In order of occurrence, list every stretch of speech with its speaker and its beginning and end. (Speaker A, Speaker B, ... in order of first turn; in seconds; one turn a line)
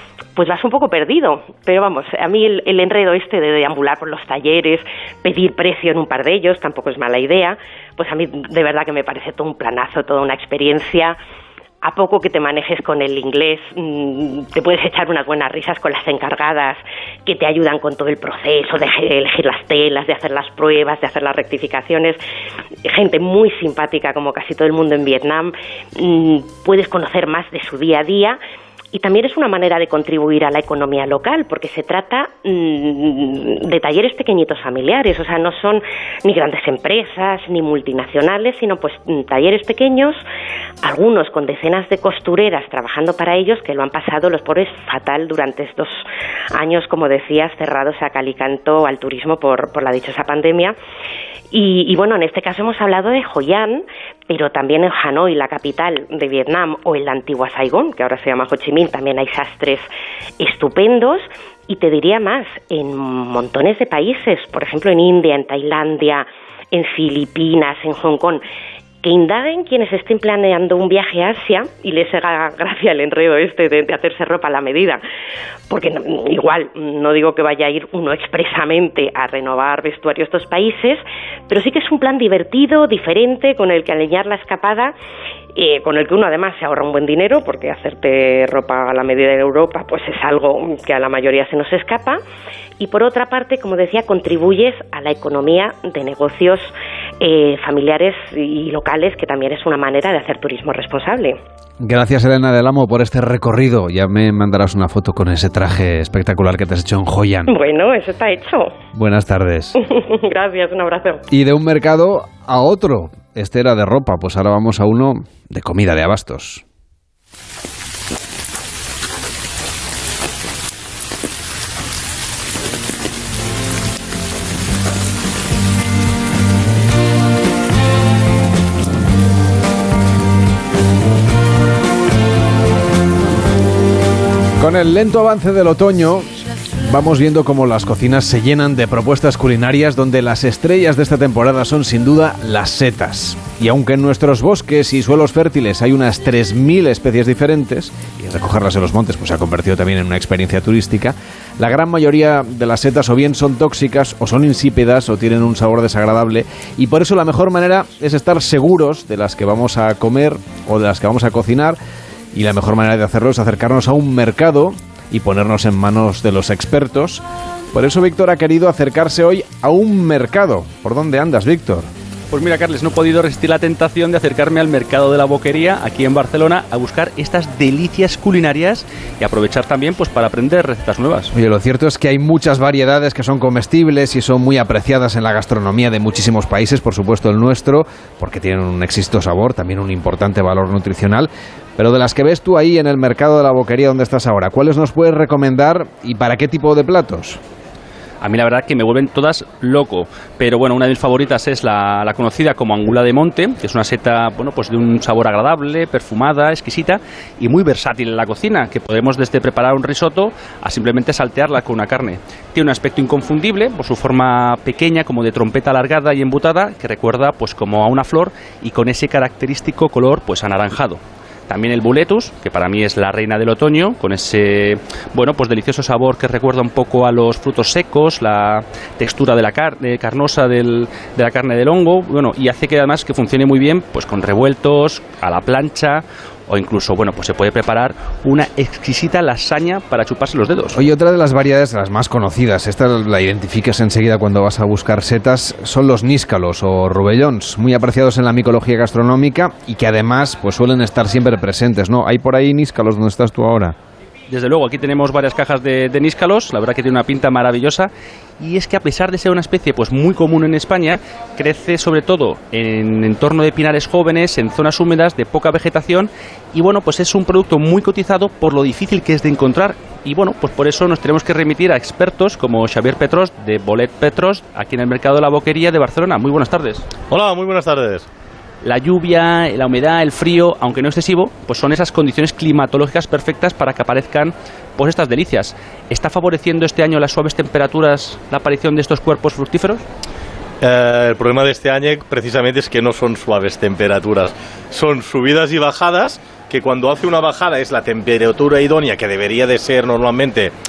Speaker A: 0.3-11.2
Speaker A: 11.8-22.2
Speaker A: 22.9-28.4
Speaker A: 28.9-40.2
Speaker A: 40.8-46.0
Speaker A: 46.5-50.7
Speaker A: 51.5-59.9
Speaker A: 60.4-68.4
Speaker A: 69.0-75.0
Speaker A: 75.7-84.9
Speaker A: 85.5-92.2
Speaker A: 92.8-101.4
Speaker B: 101.8-107.5
Speaker A: 107.5-108.7
Speaker B: 108.9-109.7
Speaker A: 109.8-111.2
Speaker B: 111.3-116.6
Speaker B: 134.6-136.3
Speaker B: 136.8-161.8
Speaker B: 162.3-171.9
Speaker C: 172.3-181.3
Speaker B: 181.3-197.4
Speaker C: 198.2-240.8
Speaker B: 240.7-253.8
Speaker C: 254.3-257.9
Speaker C: 258.4-276.8
Speaker D: 277.1-278.1
Speaker C: 278.6-289.8
Speaker D: 290.6-300.5